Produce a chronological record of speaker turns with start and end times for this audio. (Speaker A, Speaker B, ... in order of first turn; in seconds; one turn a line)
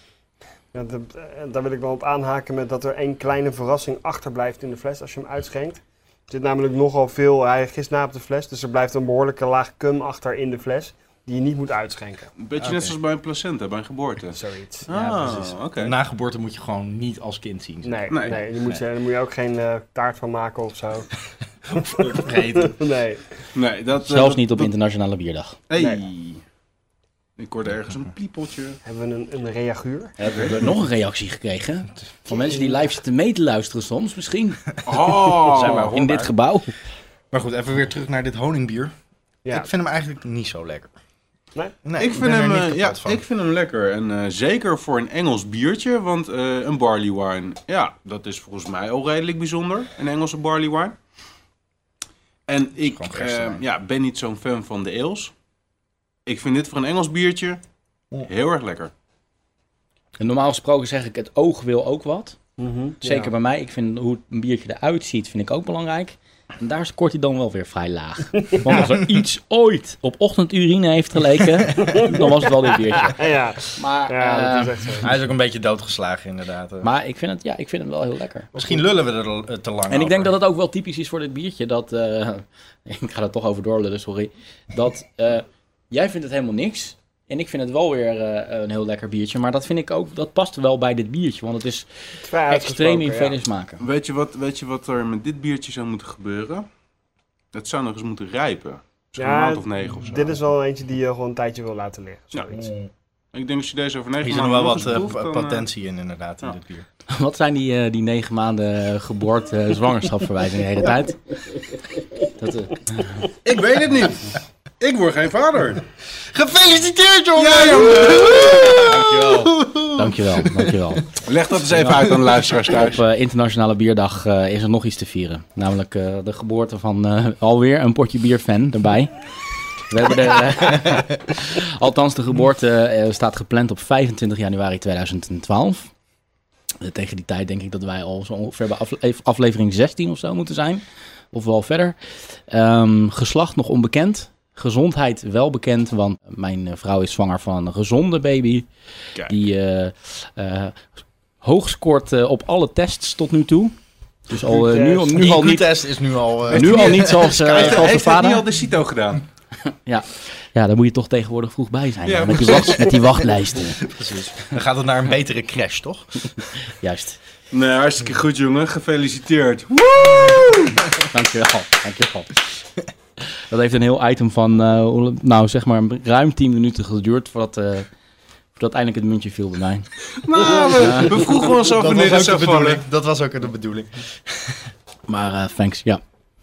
Speaker A: 0.7-12.3
Speaker B: 12.4-15.9
Speaker C: 12.6-12.9
Speaker A: 14.3-14.9
Speaker C: 15.0-18.8
Speaker A: 17.8-21.2
Speaker B: 18.1-18.4
Speaker C: 21.7-22.8
Speaker A: 21.7-23.2
Speaker B: 23.5-24.7
Speaker D: 24.0-25.6
Speaker B: 25.7-26.4
Speaker A: 25.8-26.0
Speaker B: 27.4-28.8
Speaker A: 28.8-30.1
Speaker D: 30.2-34.6
Speaker B: 30.2-30.6
Speaker A: 32.3-32.8
Speaker B: 34.8-36.0
Speaker C: 35.3-36.3
Speaker D: 35.5-36.7
Speaker C: 37.3-38.9
Speaker C: 39.5-40.9
Speaker C: 41.8-43.2
Speaker B: 42.0-51.0
Speaker B: 52.5-55.3
Speaker C: 52.8-53.6
Speaker B: 56.2-57.6
Speaker B: 58.2-58.9
Speaker D: 60.2-62.4
Speaker A: 62.6-63.3
Speaker D: 63.0-75.0
Speaker A: 71.8-75.1
Speaker C: 75.0-76.9
Speaker D: 76.8-78.5
Speaker C: 78.5-80.3
Speaker D: 79.9-91.9
Speaker A: 92.2-93.4
Speaker D: 92.4-93.8
Speaker B: 93.8-96.7
Speaker B: 97.5-100.4
Speaker A: 99.2-102.7
Speaker C: 102.5-102.9
Speaker B: 103.3-105.7
Speaker C: 104.2-106.8
Speaker D: 107.1-111.3
Speaker D: 112.3-113.3
Speaker B: 113.4-115.8
Speaker C: 116.1-120.8
Speaker B: 117.3-119.5
Speaker D: 119.9-121.1
Speaker B: 121.2-123.0
Speaker D: 121.7-122.1
Speaker D: 122.6-135.9
Speaker D: 136.8-148.7
Speaker D: 149.2-153.7
Speaker D: 154.3-155.9
Speaker C: 154.5-158.0
Speaker A: 154.6-155.1
Speaker D: 156.5-158.4
Speaker B: 156.5-159.2
Speaker D: 159.8-163.9
Speaker B: 162.1-163.0
Speaker C: 163.8-166.4
Speaker D: 166.4-167.2
Speaker B: 167.5-170.8
Speaker D: 170.9-172.4
Speaker D: 173.2-177.9
Speaker D: 178.5-179.9
Speaker B: 180.2-182.8
Speaker D: 180.8-181.2
Speaker C: 181.6-184.7
Speaker D: 185.1-186.0